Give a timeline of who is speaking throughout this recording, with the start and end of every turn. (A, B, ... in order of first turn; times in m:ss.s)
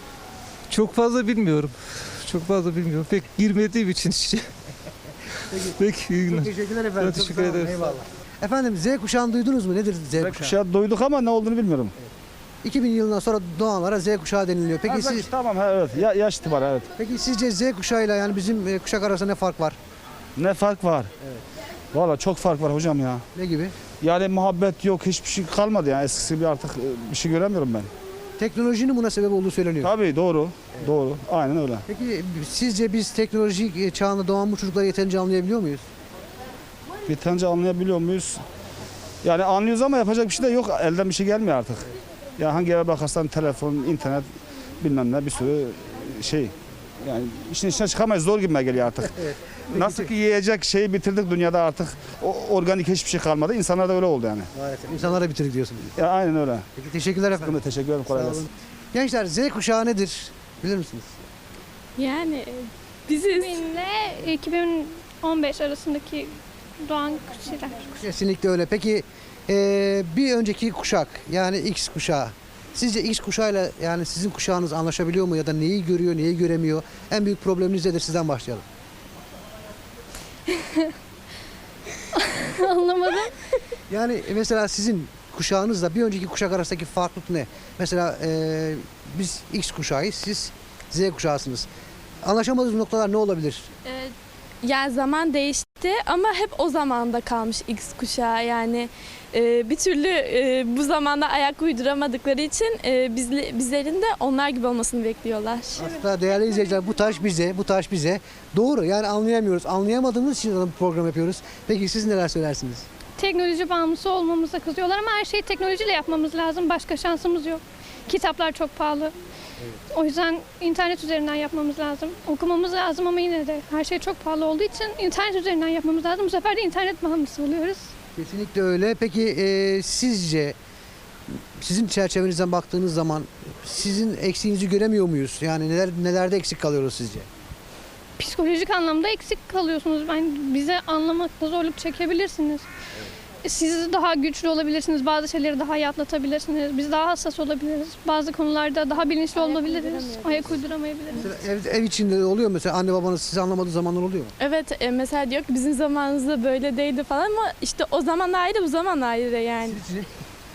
0:00.7-0:04.5 A
0:05.6-0:07.7 A
0:06.3-0:10.6 B
0:10.2-0:11.9 C
0:12.6-0:15.3 B
0:14.9-0:16.9 C
0:17.0-0:19.8 B
0:20.4-0:21.1 C
0:21.9-0:23.2 C
0:23.4-0:23.8 B
0:24.0-0:27.9 C
0:28.4-0:29.9 B
0:29.8-0:31.8 C
0:31.9-0:35.8 B
0:37.1-0:38.4 C
0:39.2-0:41.9 C
0:42.4-0:44.3 C
0:44.8-0:49.2 C
0:49.2-0:50.1 B
0:49.7-0:54.5 C
0:54.6-0:55.9 B
0:56.0-0:56.7 C
0:56.8-0:57.6 B
0:57.4-0:58.5 C
0:58.1-1:01.1 B
1:02.0-1:03.6 D
1:03.3-1:06.3 E
1:06.8-1:08.0 E
1:08.0-1:18.6 B
1:20.5-1:20.9 E
1:22.2-1:23.4 E
1:23.9-1:31.7 B
1:32.2-1:33.7 B
1:33.9-1:34.1 D
1:34.6-1:45.9 D
1:45.8-1:52.8 B
1:53.2-1:59.1 E
1:59.9-2:07.9 E
2:08.2-2:10.6 B
2:11.6-2:17.3 B
2:18.2-2:22.6 E
2:23.4-2:31.3 E
2:29.3-2:30.6 D
2:31.2-2:34.3 B
2:34.4-2:39.8 D
2:39.7-2:40.1 B